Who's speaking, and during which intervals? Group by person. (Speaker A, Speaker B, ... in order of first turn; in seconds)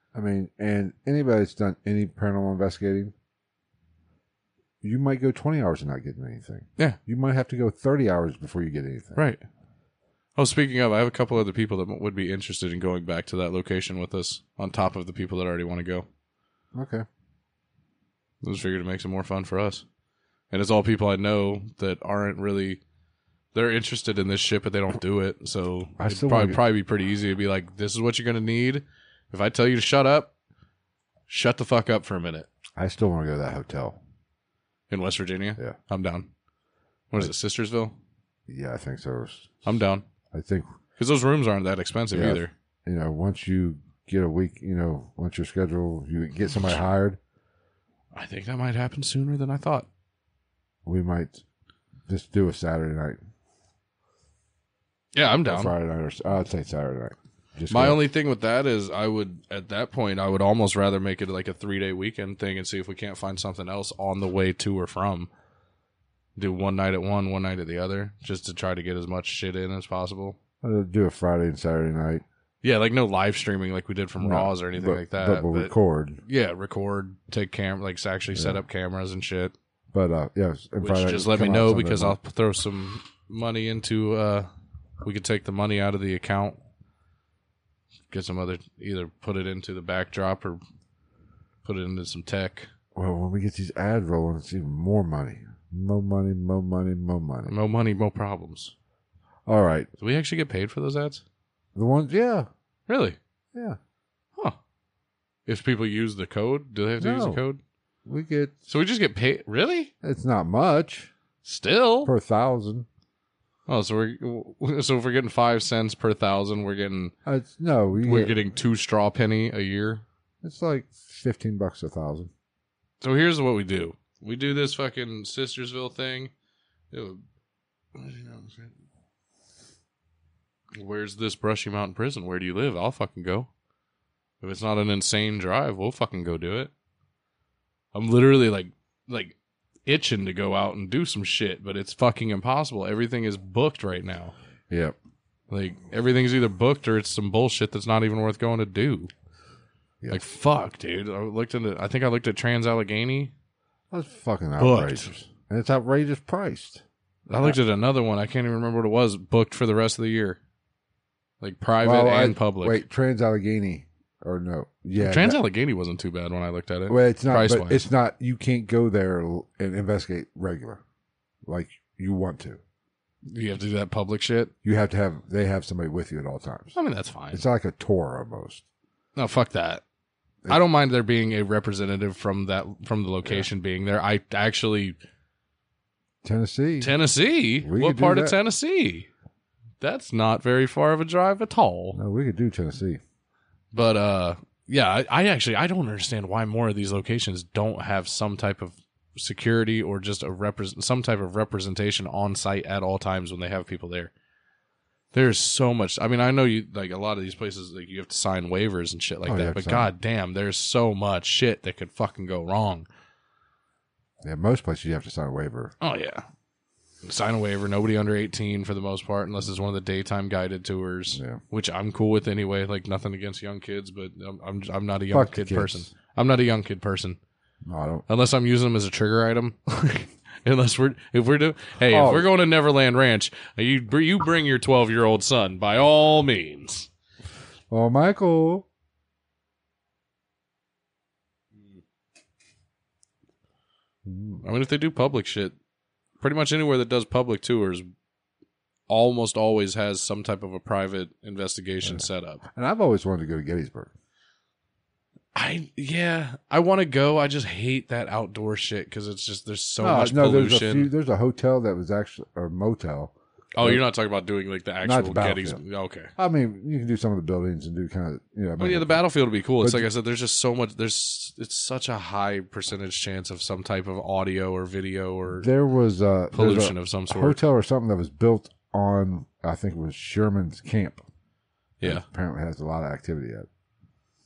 Speaker A: 0.1-3.1, 4.8-9.2, 16.8-17.1, 26.0-26.6, 32.8-34.0, 38.5-39.6, 40.3-40.7, 42.1-47.2, 50.9-51.4, 52.1-53.2, 55.5-58.0, 70.6-72.2, 74.2-76.2, 78.3-78.6, 79.9-82.2, 93.0-97.5, 99.5-99.9, 101.8-102.5, 107.0-107.4, 108.1-108.5, 110.0-111.1, 112.0-112.9, 117.3-118.4, 120.4-122.3, 144.7-145.0, 153.9-156.8, 161.8-165.4, 166.9-170.8, 171.5-172.6, 174.6-176.8, 177.3-178.6, 186.2-186.9, 187.6-188.4, 191.9-193.0, 209.2-209.9, 214.2-215.7, 221.1-221.4, 225.1-225.9, 227.7-228.1, 231.9-232.3, 237.7-238.7, 244.1-244.4, 251.8-253.9, 259.8-263.8, 264.8-265.6, 266.2-269.0, 269.6-269.9, 275.4-281.0, 281.8-283.5
Speaker B: 9.2-9.4, 10.4-16.1, 18.4-19.8, 20.5-22.8, 23.5-30.3, 31.3-32.5, 34.9-36.3, 37.1-38.0, 39.6-40.0, 41.0-42.5, 48.1-49.9, 55.1-55.7, 57.7-65.3, 66.4-70.4, 72.6-75.7, 76.3-79.5, 80.8-84.5, 85.0-86.6, 88.1-90.6, 91.6-92.7, 97.5-98.7, 100.0-101.2, 102.9-103.2, 105.5-107.6, 108.7-109.9, 111.4-112.1, 113.7-117.1, 118.0-120.0, 123.0-126.3, 126.9-127.2, 128.0-128.7, 130.8-133.5, 134.4-136.7, 137.9-144.3, 145.5-149.1, 150.1-153.3, 154.6-155.1, 157.3-160.4, 161.4-162.8, 165.0-167.8, 173.3-174.5, 176.8-177.4, 179.2-179.8, 180.5-185.0, 186.8-189.1, 189.8-192.0, 193.7-204.1, 205.1-212.9, 215.8-216.2, 217.0-227.2, 228.1-236.9, 244.4-245.6, 246.2-247.8, 248.9-252.4, 255.3-260.9, 263.5-266.1, 268.6-275.5, 276.3-277.4, 281.8-282.1